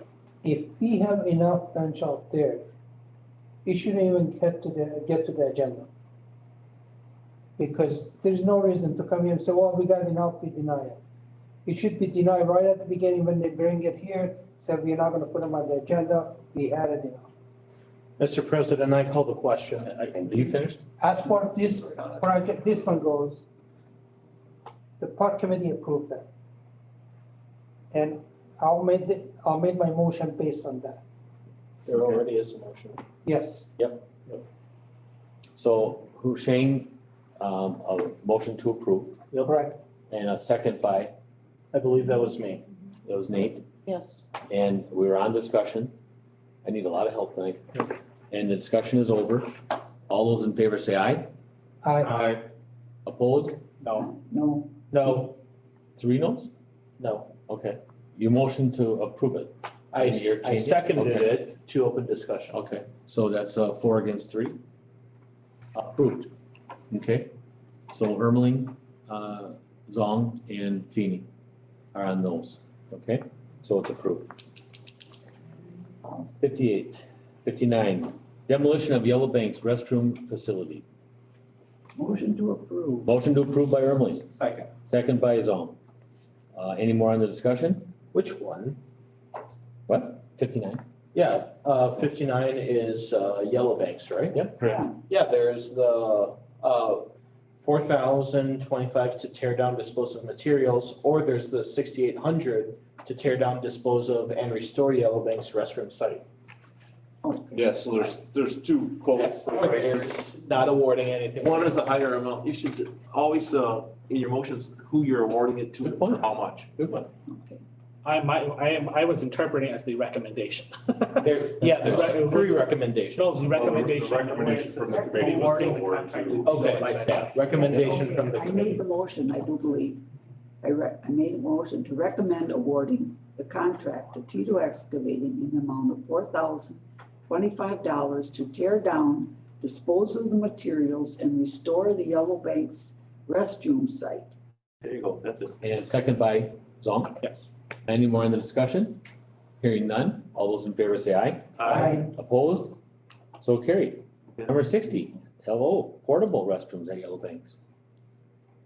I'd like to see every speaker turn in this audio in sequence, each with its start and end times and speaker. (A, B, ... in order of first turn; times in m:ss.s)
0:00.4-0:02.6 A
0:03.6-0:05.9 A
0:07.6-0:11.0 A
0:11.6-0:17.3 A
0:18.2-0:20.8 B
0:21.0-0:23.4 A
0:25.0-0:26.2 A
0:27.9-0:31.0 A
0:31.9-0:33.0 B
0:33.2-0:33.7 A
0:35.6-0:39.2 C
0:39.4-0:39.8 A
0:40.1-0:41.1 C
0:41.7-0:42.6 B
0:43.0-0:43.7 C
0:44.4-0:45.9 C
0:46.6-0:51.3 C
0:51.8-0:52.2 A
0:53.1-0:53.6 C
0:54.0-0:54.7 D
0:54.9-0:55.3 B
0:55.0-0:55.3 C
0:56.0-0:56.5 C
0:57.0-0:57.3 B
0:57.5-1:01.5 C
0:59.9-1:02.6 B
1:02.5-1:04.6 C
1:05.8-1:06.3 C
1:06.9-1:07.3 C
1:07.9-1:11.3 C
1:11.9-1:14.5 C
1:16.4-1:20.8 C
1:22.0-1:23.1 D
1:23.0-1:25.8 C
1:26.5-1:28.0 C
1:28.1-1:28.8 B
1:29.9-1:30.8 C
1:31.2-1:37.1 B
1:37.6-1:46.2 B
1:47.2-1:47.6 D
1:47.5-1:49.8 E
1:49.2-1:51.6 B
1:49.6-1:50.0 F
1:51.4-1:56.8 F
1:55.8-1:56.9 C
1:57.3-1:57.6 D
1:58.0-2:02.6 G
2:01.3-2:03.2 B
2:01.6-2:02.6 C
2:03.1-2:07.4 G
2:03.5-2:06.8 E
2:04.8-2:05.8 D
2:06.4-2:08.8 B
2:07.5-2:10.0 D
2:10.6-2:24.4 D
2:24.8-2:25.6 F
2:25.6-2:27.2 C
2:27.2-2:27.5 G
2:27.8-2:29.0 C
2:29.6-2:32.8 C
2:33.4-2:37.6 C